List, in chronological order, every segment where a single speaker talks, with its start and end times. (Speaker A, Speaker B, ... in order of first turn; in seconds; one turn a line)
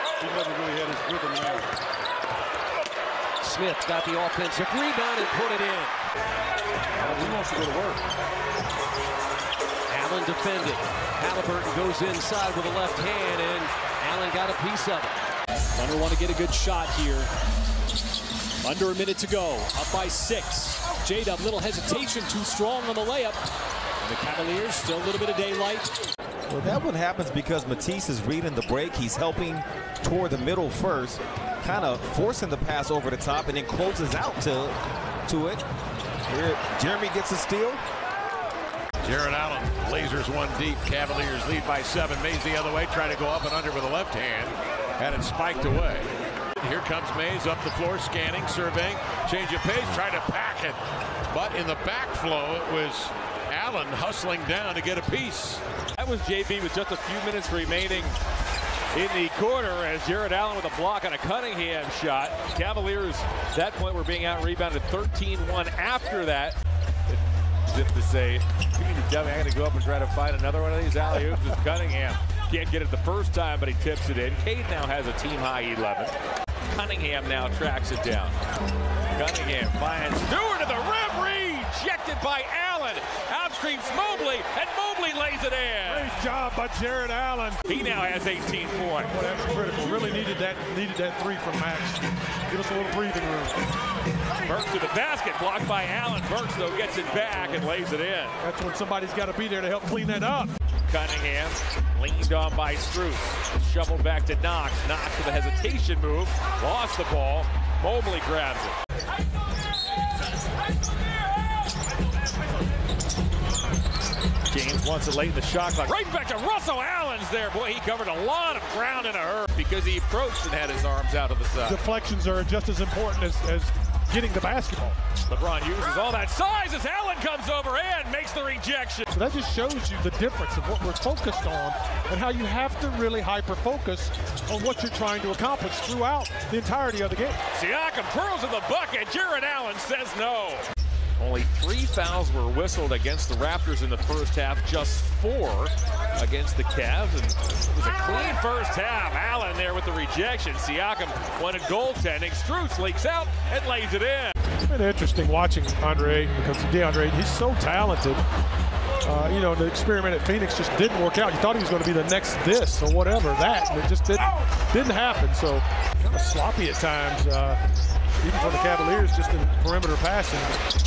Speaker A: 0.2-1.7
Speaker B: 3.4-6.0
Speaker A: 7.3-7.9
Speaker B: 9.9-15.2
Speaker C: 15.8-17.3
Speaker C: 18.6-23.4
Speaker C: 24.1-25.9
Speaker D: 26.5-35.6
Speaker D: 36.3-37.8
Speaker A: 39.0-55.6
Speaker E: 56.0-58.2
Speaker E: 58.9-66.6
Speaker E: 67.7-76.1
Speaker E: 76.7-78.3
Speaker E: 79.1-86.2
Speaker F: 85.8-87.6
Speaker E: 87.7-89.2
Speaker F: 89.1-93.6
Speaker E: 94.4-98.4
Speaker F: 98.4-100.5
Speaker E: 100.9-108.8
Speaker E: 114.5-121.8
Speaker F: 121.7-125.0
Speaker E: 125.3-129.1
Speaker F: 129.1-137.4
Speaker E: 137.5-140.7
Speaker E: 141.2-154.4
Speaker F: 154.7-158.2
Speaker F: 159.0-167.6
Speaker F: 168.2-170.6